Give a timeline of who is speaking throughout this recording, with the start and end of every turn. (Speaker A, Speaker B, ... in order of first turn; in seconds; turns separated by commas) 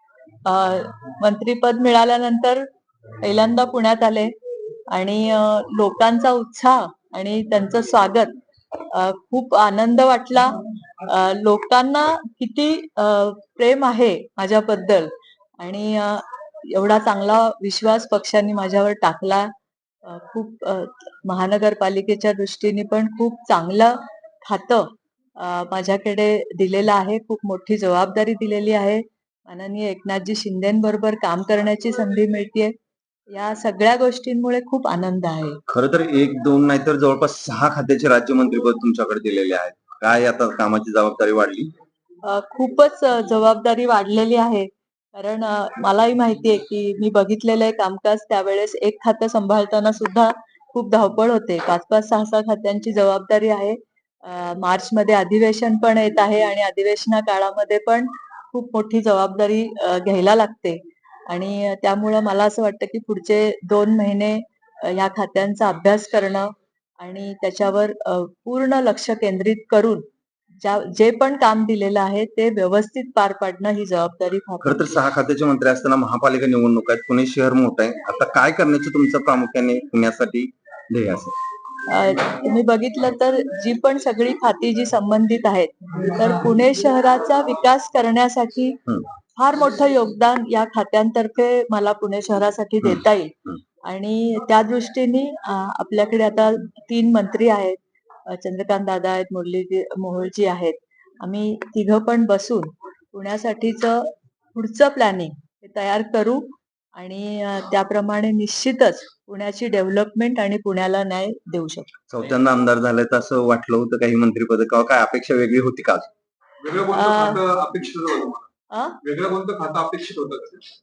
Speaker A: 0.5-2.6, Speaker A: 3.2-4.3, Speaker A: 4.9-8.3, Speaker A: 8.9-19.5, Speaker A: 20.0-32.7, Speaker A: 33.3-35.6, Speaker B: 35.7-41.7, Speaker A: 42.3-70.0, Speaker A: 70.6-75.0, Speaker B: 74.6-81.3, Speaker A: 81.8-88.8, Speaker A: 89.3-112.0, Speaker B: 112.1-116.1, Speaker C: 116.6-118.5, Speaker A: 116.9-117.4, Speaker A: 118.7-119.0, Speaker C: 119.0-120.6